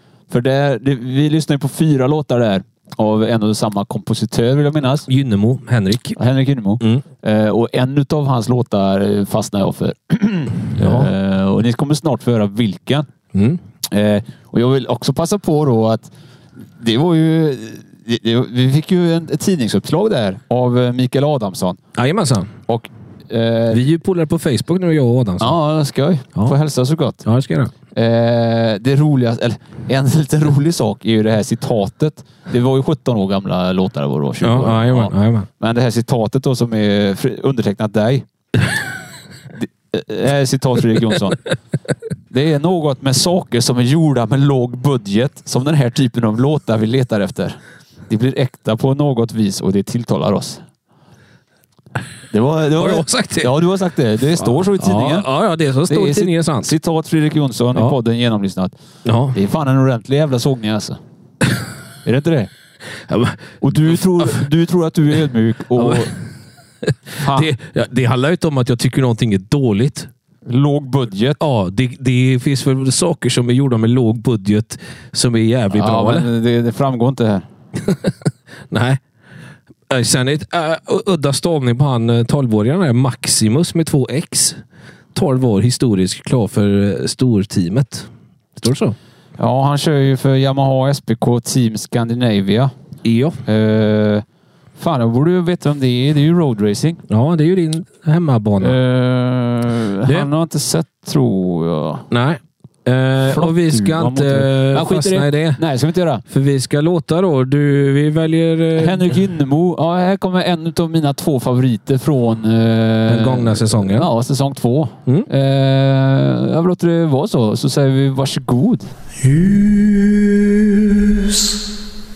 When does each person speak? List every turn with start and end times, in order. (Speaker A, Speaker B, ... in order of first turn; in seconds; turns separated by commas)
Speaker A: 0.3-5.1, Speaker B: 5.1-6.2, Speaker A: 6.2-13.1, Speaker B: 10.8-11.1, Speaker B: 13.3-13.6, Speaker A: 13.9-16.1, Speaker A: 16.8-21.8, Speaker B: 21.9-22.5, Speaker A: 22.7-23.8, Speaker B: 23.7-25.6, Speaker A: 25.4-27.2, Speaker B: 27.2-27.7, Speaker A: 27.9-38.2, Speaker B: 34.4-35.5, Speaker A: 39.5-41.5, Speaker A: 42.3-47.6, Speaker A: 48.1-50.6, Speaker A: 52.3-55.3, Speaker B: 52.7-53.6, Speaker B: 54.4-56.7, Speaker A: 55.9-58.7, Speaker B: 59.0-59.4, Speaker A: 59.3-61.0, Speaker A: 62.0-62.5, Speaker B: 63.1-64.4, Speaker A: 63.6-66.1, Speaker B: 65.7-66.1, Speaker B: 66.8-70.1, Speaker A: 67.2-67.5, Speaker A: 70.5-71.4, Speaker B: 71.4-76.3, Speaker A: 75.7-77.4, Speaker B: 77.8-78.1, Speaker B: 78.7-79.0, Speaker B: 79.9-84.6, Speaker B: 85.1-89.0, Speaker A: 89.4-92.7, Speaker B: 93.0-93.4, Speaker A: 93.5-94.2, Speaker A: 94.8-97.0, Speaker B: 97.1-98.8, Speaker A: 98.6-102.1, Speaker B: 102.1-105.6, Speaker A: 103.2-106.2, Speaker B: 106.2-109.2, Speaker A: 108.8-118.9, Speaker B: 113.1-114.1, Speaker C: 119.2-121.6